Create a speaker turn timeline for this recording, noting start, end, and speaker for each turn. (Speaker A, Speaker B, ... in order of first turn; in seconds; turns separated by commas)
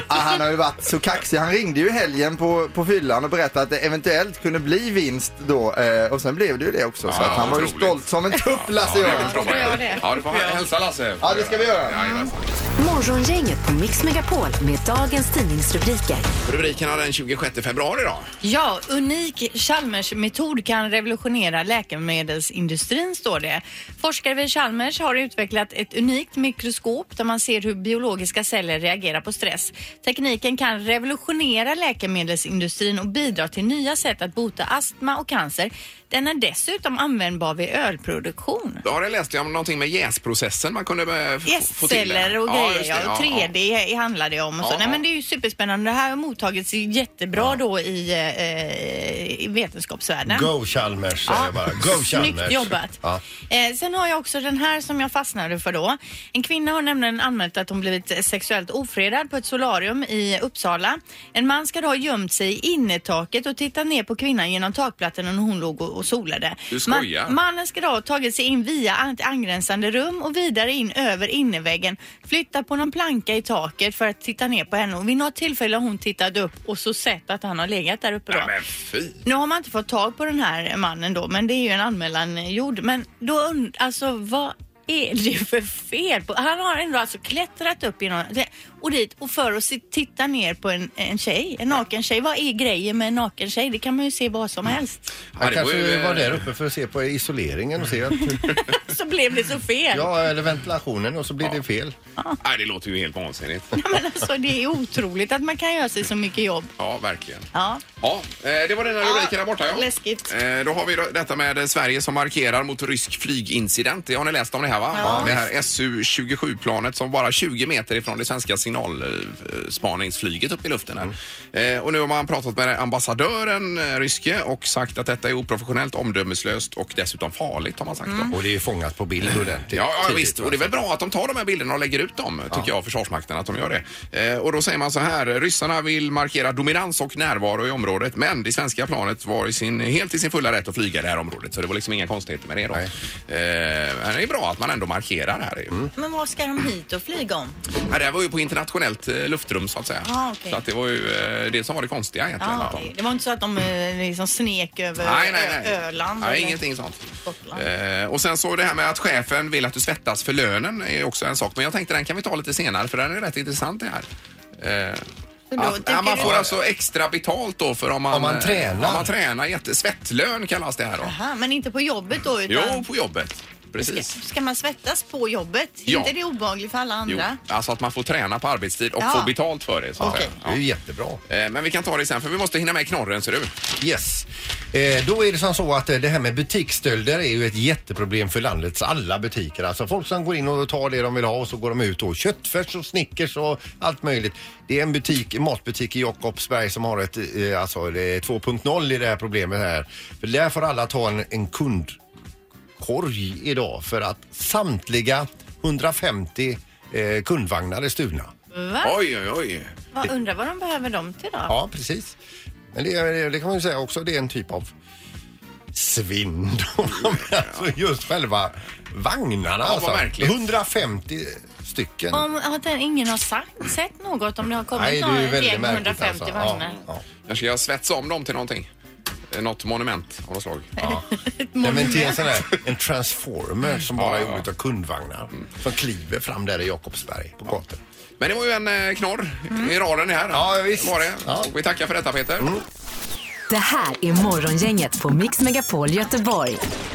Speaker A: 0.1-9.9, Speaker B: 7.1-12.7, Speaker C: 9.0-10.6, Speaker A: 11.2-12.1, Speaker D: 12.8-16.3, Speaker B: 16.4-18.3, Speaker C: 18.4-38.8, Speaker B: 38.9-43.5, Speaker C: 41.5-50.5, Speaker B: 44.6-45.0, Speaker E: 47.3-47.6, Speaker E: 50.2-53.2, Speaker C: 51.3-53.0, Speaker C: 53.5-78.5, Speaker B: 66.7-67.3, Speaker B: 78.3-79.2, Speaker C: 79.2-95.0, Speaker B: 95.3-96.4, Speaker E: 95.4-98.4, Speaker C: 98.3-100.1, Speaker E: 99.9-102.0, Speaker B: 102.4-103.8, Speaker C: 103.8-106.7, Speaker B: 106.8-107.5, Speaker C: 107.5-107.8, Speaker B: 108.0-128.4, Speaker C: 109.0-110.3, Speaker C: 114.9-115.4, Speaker E: 115.0-115.5, Speaker C: 128.1-128.3, Speaker E: 128.3-130.7, Speaker B: 129.3-145.8, Speaker C: 145.9-147.6, Speaker B: 147.9-152.8, Speaker C: 150.0-150.6, Speaker C: 152.4-156.6, Speaker B: 155.0-164.1, Speaker C: 157.2-157.7, Speaker B: 164.6-165.1, Speaker C: 165.5-166.5, Speaker B: 165.6-171.1, Speaker E: 166.2-166.5, Speaker E: 168.1-169.2, Speaker C: 171.0-172.9, Speaker B: 172.5-174.2, Speaker C: 173.8-177.4, Speaker B: 175.9-176.1, Speaker B: 177.1-180.6, Speaker C: 179.0-179.3, Speaker C: 180.0-180.3, Speaker E: 180.0-181.2, Speaker B: 181.3-183.5, Speaker E: 183.8-202.0, Speaker E: 202.8-208.3, Speaker C: 208.5-208.9, Speaker B: 208.8-209.7, Speaker C: 209.9-211.5, Speaker E: 211.5-212.2, Speaker E: 212.7-214.7, Speaker E: 215.7-222.3, Speaker B: 217.2-217.6, Speaker B: 219.6-220.5, Speaker C: 222.1-226.8, Speaker E: 224.7-227.0, Speaker B: 227.3-228.7, Speaker B: 229.3-230.8, Speaker C: 230.8-232.2, Speaker E: 231.6-237.8, Speaker B: 234.0-234.4, Speaker B: 238.2-242.5, Speaker E: 240.3-241.5, Speaker D: 243.5-246.6